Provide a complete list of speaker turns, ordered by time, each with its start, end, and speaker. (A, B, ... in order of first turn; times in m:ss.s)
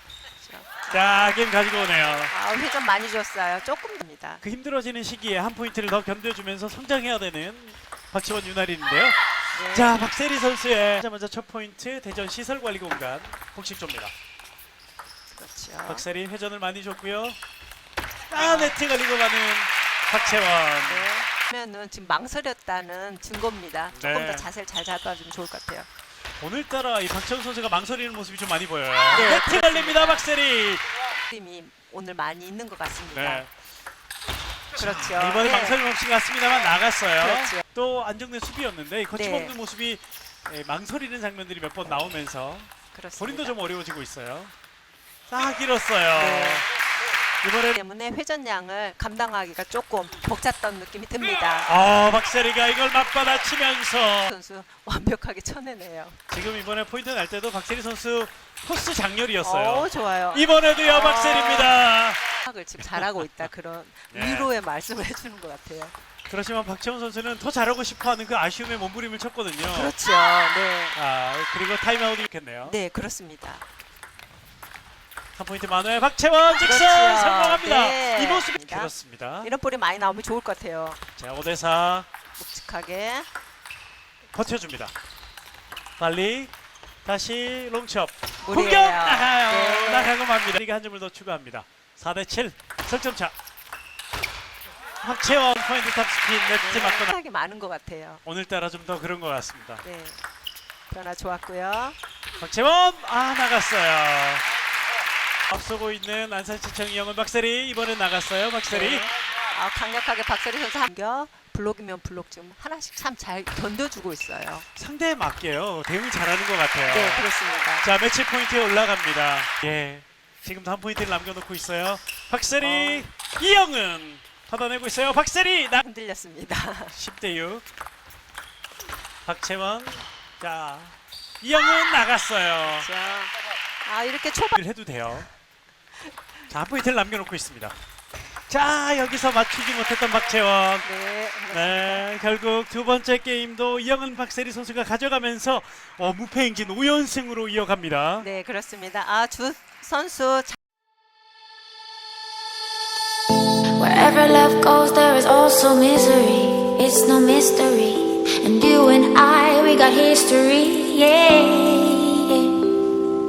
0:00.4-0:01.2 A
0:00.9-0:02.3 B
0:02.3-0:04.4 A
0:04.4-0:14.1 B
0:09.5-0:10.0 A
0:15.3-0:16.0 A
0:15.8-0:17.4 B
0:18.3-0:21.1 B
0:18.3-0:18.8 A
0:20.8-0:25.9 A
0:23.9-0:24.5 B
0:26.4-0:30.8 B
0:29.1-0:30.2 A
0:31.3-0:33.4 A
0:33.1-0:33.5 B
0:34.7-0:35.8 A
0:34.8-0:44.5 B
0:37.2-0:37.6 A
0:39.1-0:39.5 A
0:42.9-0:43.6 A
0:45.3-0:46.6 B
0:46.1-0:46.6 A
0:47.4-0:47.8 B
0:47.8-0:51.7 A
0:51.6-0:54.3 B
0:54.2-0:56.2 A
0:56.3-1:02.2 B
0:59.4-1:01.8 A
1:02.4-1:05.9 A
1:02.8-1:03.3 B
1:04.1-1:04.5 B
1:06.3-1:09.9 B
1:09.7-1:11.0 A
1:10.9-1:12.8 B
1:12.6-1:13.6 A
1:15.4-1:19.5 B
1:16.6-1:18.9 A
1:19.4-1:21.0 A
1:21.2-1:22.1 B
1:22.4-1:23.3 A
1:24.3-1:24.9 B
1:26.0-1:26.5 B
1:27.0-1:33.3 B
1:28.4-1:30.1 A
1:35.0-1:37.1 B
1:36.6-1:38.2 A
1:38.2-1:39.8 B
1:39.8-1:40.2 A
1:40.9-1:42.0 A
1:42.4-1:44.4 B
1:45.5-1:49.1 B
1:48.7-1:54.6 A
1:54.8-1:57.2 B
1:56.8-1:57.9 A
1:57.8-2:05.8 B
2:02.6-2:03.1 A
2:05.7-2:06.9 A
2:06.9-2:07.6 B
2:09.2-2:12.9 B
2:12.6-2:13.3 A
2:13.8-2:14.6 A
2:14.6-2:15.3 B
2:16.5-2:17.8 B
2:18.5-2:20.9 B
2:20.8-2:22.0 A
2:21.5-2:28.3 B
2:28.2-2:30.6 A
2:33.8-2:42.6 C